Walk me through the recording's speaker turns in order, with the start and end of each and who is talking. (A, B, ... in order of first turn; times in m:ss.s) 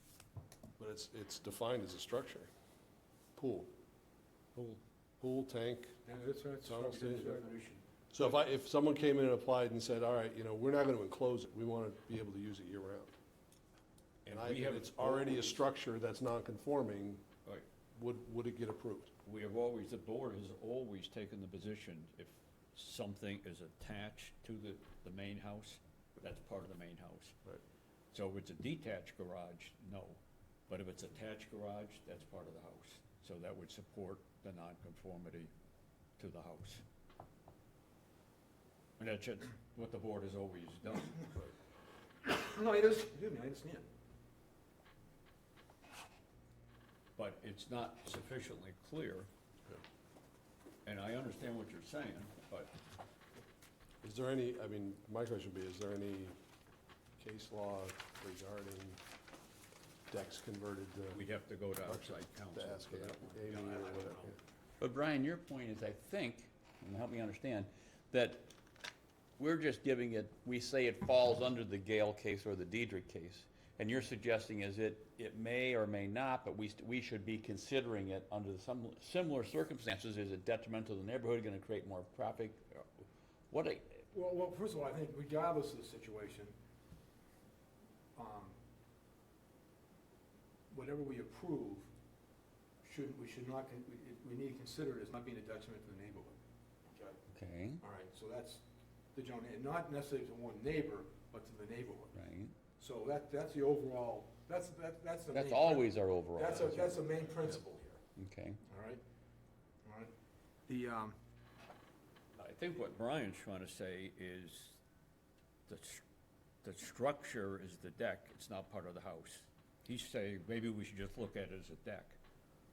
0:00.8-0:02.5 A
0:03.4-0:03.7 A
0:05.2-0:06.0 A
0:06.1-0:07.8 B
0:06.6-0:07.4 A
0:08.1-0:13.1 A
0:14.2-0:15.6 C
0:14.3-0:17.2 A
0:17.9-0:19.1 A
0:19.2-0:27.4 C
0:28.1-0:35.5 C
0:36.2-0:36.8 C
0:39.0-0:41.4 C
0:42.2-0:43.9 B
0:47.2-0:49.3 C
0:50.8-0:52.7 C
0:54.0-0:56.4 A
0:57.2-0:59.0 A
1:00.1-1:01.2 A
1:01.1-1:04.3 C
1:01.9-1:04.4 A
1:04.8-1:08.5 D
1:09.4-1:24.0 D
1:24.1-1:26.5 B
1:28.2-1:28.6 B
1:30.7-1:31.9 B
1:32.8-1:36.4 B
1:36.9-1:37.2 B
1:37.3-1:37.8 D
1:37.8-1:38.6 B
1:39.1-1:48.0 B
1:42.1-1:42.6 D
1:45.3-1:47.0 D
1:48.2-1:48.6 D
1:48.6-1:49.0 B
1:49.8-1:50.1 B
1:50.7-1:51.2 B
1:52.4-1:54.8 C
1:55.7-1:56.0 C
1:56.6-2:02.2 C